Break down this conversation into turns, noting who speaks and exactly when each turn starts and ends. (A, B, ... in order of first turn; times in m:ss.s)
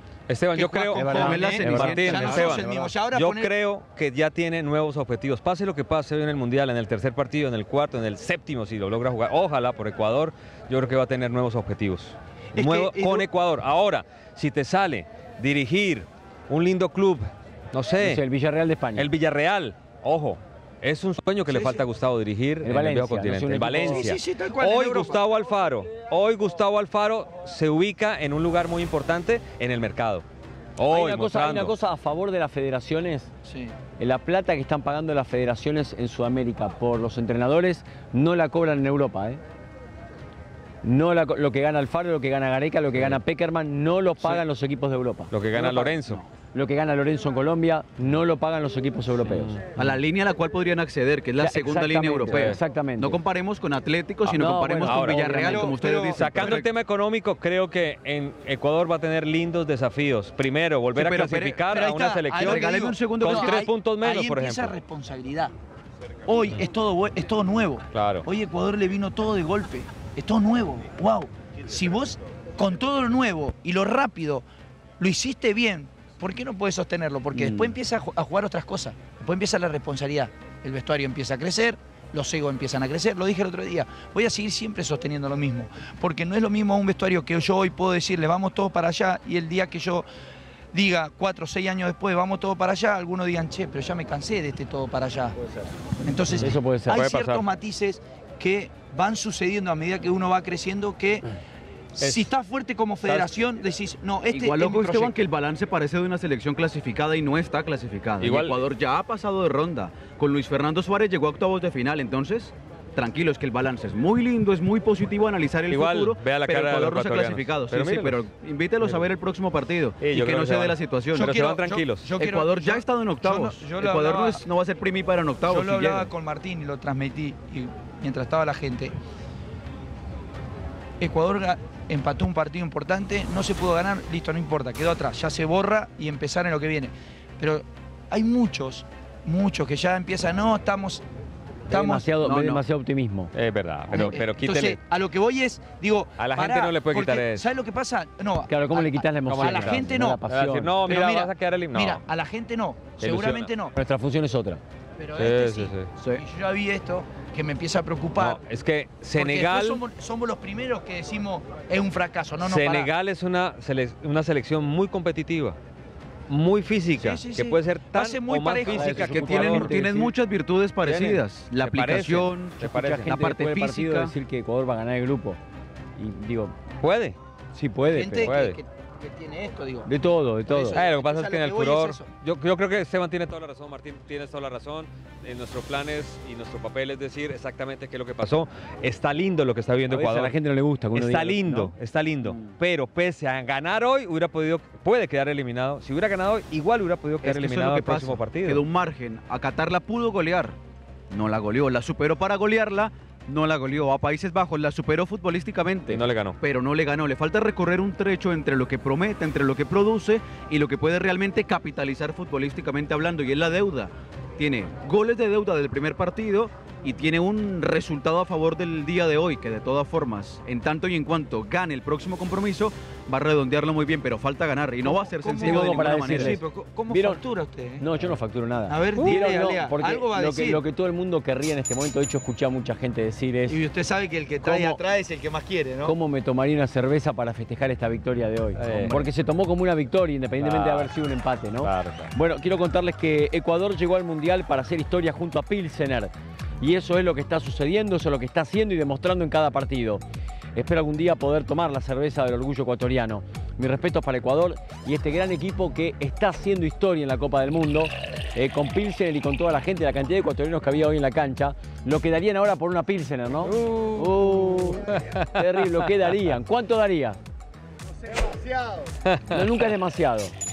0:00.3-0:18.2 A
0:00.5-0:03.5 B
0:00.9-0:02.9 C
0:01.0-0:02.5 D
0:12.6-0:13.3 B
0:18.0-0:19.1 C
0:19.0-0:30.2 A
0:21.5-0:21.8 B
0:22.6-0:24.1 C
0:23.9-0:25.2 B
0:30.8-0:31.7 A
0:30.9-0:33.3 C
0:33.4-0:33.8 B
0:34.0-0:39.4 C
0:40.8-0:45.3 C
0:42.9-0:43.2 A
0:45.3-0:46.2 A
0:45.5-0:46.3 D
0:46.5-0:49.6 C
0:49.2-0:49.8 A
0:49.8-0:56.7 D
0:51.4-0:53.2 C
0:52.3-0:52.6 A
0:54.2-0:55.4 A
0:54.4-0:55.7 C
0:55.3-0:56.6 B
0:55.9-1:04.8 A
1:00.9-1:01.7 D
1:01.7-1:05.5 B
1:02.4-1:03.6 D
1:06.3-1:14.4 B
1:07.9-1:08.3 A
1:15.0-1:30.1 B
1:17.3-1:17.8 D
1:30.7-1:35.4 B
1:36.0-1:41.3 B
1:36.3-1:37.4 A
1:36.4-1:37.0 C
1:42.0-1:45.2 B
1:42.0-1:42.3 A
1:43.0-1:43.4 A
1:44.3-2:01.4 D
1:48.2-1:48.6 A
1:55.7-1:58.2 A
2:00.0-2:02.1 A
2:01.1-2:04.4 B
2:02.2-2:06.1 D
2:05.5-2:08.9 B
2:11.0-2:21.0 B
2:21.7-2:22.1 B
2:21.7-2:23.3 C
2:22.2-2:22.6 D
2:23.3-2:24.8 A
2:23.9-2:30.2 B
2:26.2-2:27.4 A
2:28.5-2:30.8 C
2:29.3-2:32.0 A
2:30.9-2:33.7 B
2:33.0-2:33.5 A
2:33.8-2:34.6 C
2:35.0-2:38.4 B
2:35.2-2:35.9 A
2:36.0-2:36.2 D
2:38.2-2:39.8 A
2:39.2-2:42.9 B
2:42.4-2:45.6 A
2:46.3-2:49.8 A
2:47.0-2:49.7 B
2:48.7-2:50.1 C
2:48.9-2:54.1 D
2:50.8-2:53.2 A
2:52.6-2:55.4 C
2:56.0-2:56.6 C
2:56.8-2:57.2 A
2:57.5-2:58.3 C
2:57.9-2:59.9 B
2:58.2-2:58.6 A
2:59.8-3:00.8 C
3:00.5-3:02.1 B
3:00.7-3:10.4 A
3:09.9-3:11.7 C
3:10.9-3:18.6 A
3:17.2-3:20.6 D
3:21.1-3:46.4 D
3:25.9-3:26.4 A
3:44.8-3:47.9 B
3:45.4-3:47.2 C
3:47.8-3:53.6 C
3:48.7-3:50.6 B
3:49.0-3:49.3 A
3:53.5-3:56.0 B
3:54.4-3:54.8 C
3:55.8-4:10.0 C
3:58.6-3:59.1 A
4:00.4-4:00.9 A
4:01.6-4:02.1 A
4:10.6-4:27.2 C
4:23.5-4:25.7 A
4:29.0-4:29.5 A
4:29.3-4:30.3 C